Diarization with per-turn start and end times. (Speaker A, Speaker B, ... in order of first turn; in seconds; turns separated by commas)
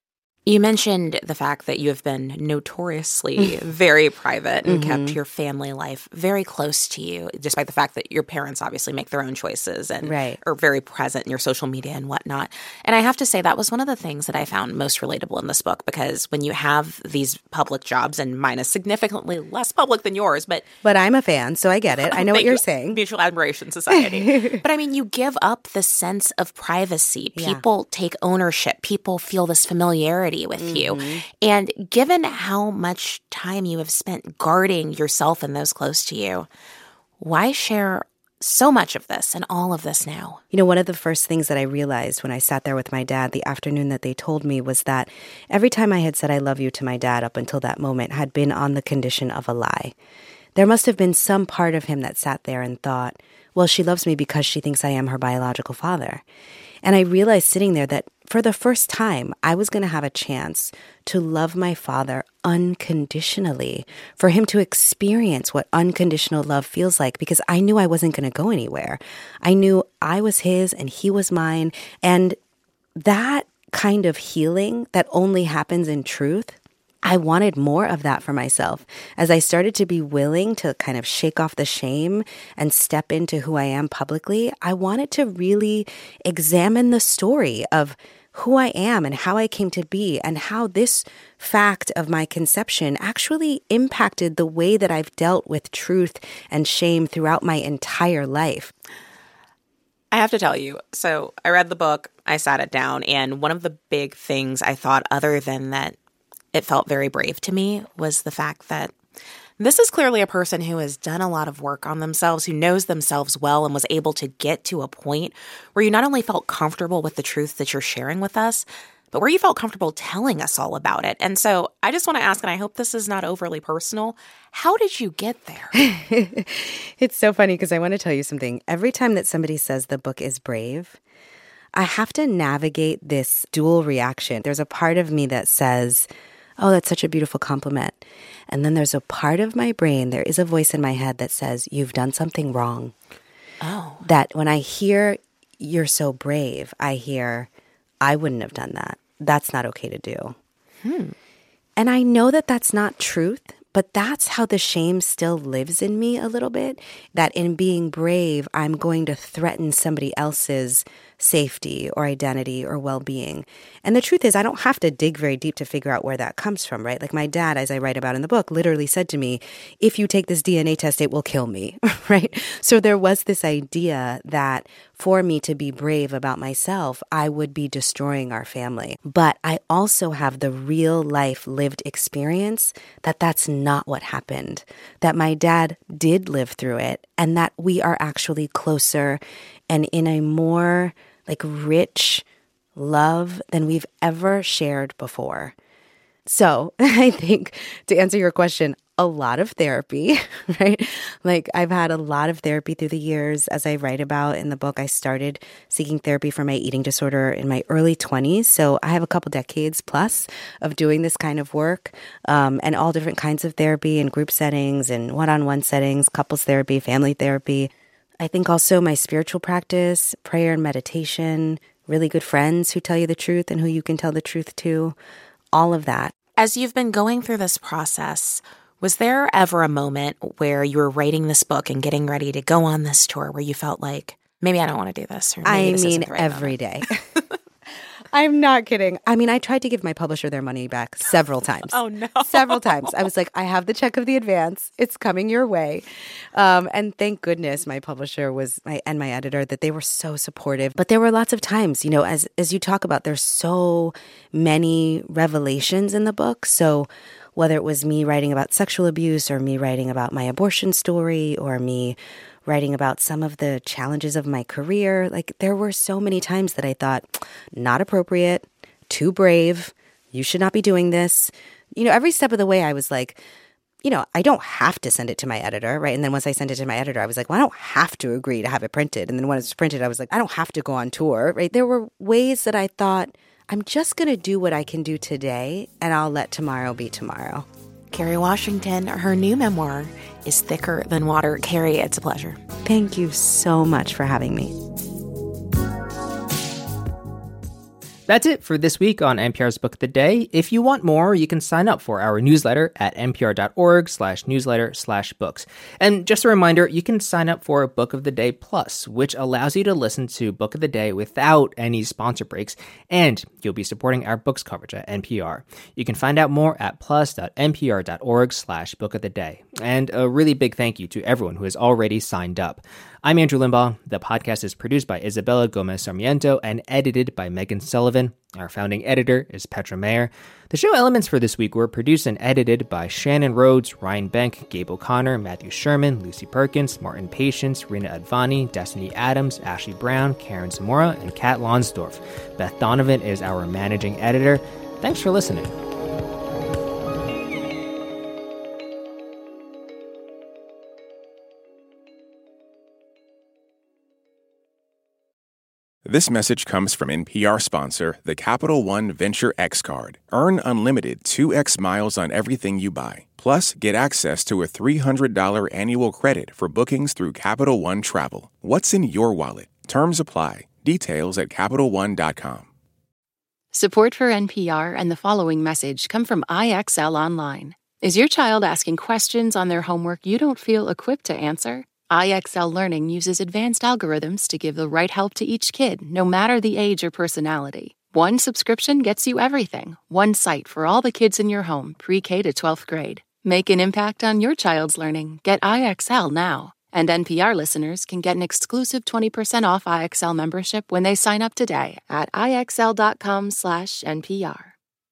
Speaker A: 0.5-20.6, Speaker B: 4.6-5.2, Speaker B: 10.0-10.4, Speaker B: 20.8-23.0, Speaker A: 21.9-36.5, Speaker B: 23.9-24.6, Speaker B: 27.3-27.6, Speaker B: 30.6-31.2, Speaker A: 37.2-40.4, Speaker B: 40.5-49.9, Speaker B: 50.5-56.2, Speaker B: 56.8-72.4, Speaker B: 73.0-98.7, Speaker A: 100.1-106.0, Speaker A: 106.5-108.9, Speaker A: 109.6-125.8, Speaker B: 125.7-131.0, Speaker B: 131.7-136.1, Speaker B: 136.6-142.9, Speaker A: 143.6-144.1, Speaker B: 144.0-147.5, Speaker B: 148.0-150.3, Speaker A: 150.8-151.2, Speaker B: 151.8-192.2, Speaker B: 192.8-195.5, Speaker B: 196.2-217.7, Speaker B: 218.2-224.9, Speaker B: 225.5-226.1, Speaker A: 226.3-236.5, Speaker B: 235.4-237.0, Speaker B: 238.1-245.8, Speaker A: 241.6-243.0, Speaker B: 246.3-273.2, Speaker B: 273.8-287.4, Speaker A: 287.9-292.4, Speaker B: 292.6-294.5, Speaker C: 298.1-345.5, Speaker D: 355.8-372.5, Speaker E: 373.5-404.5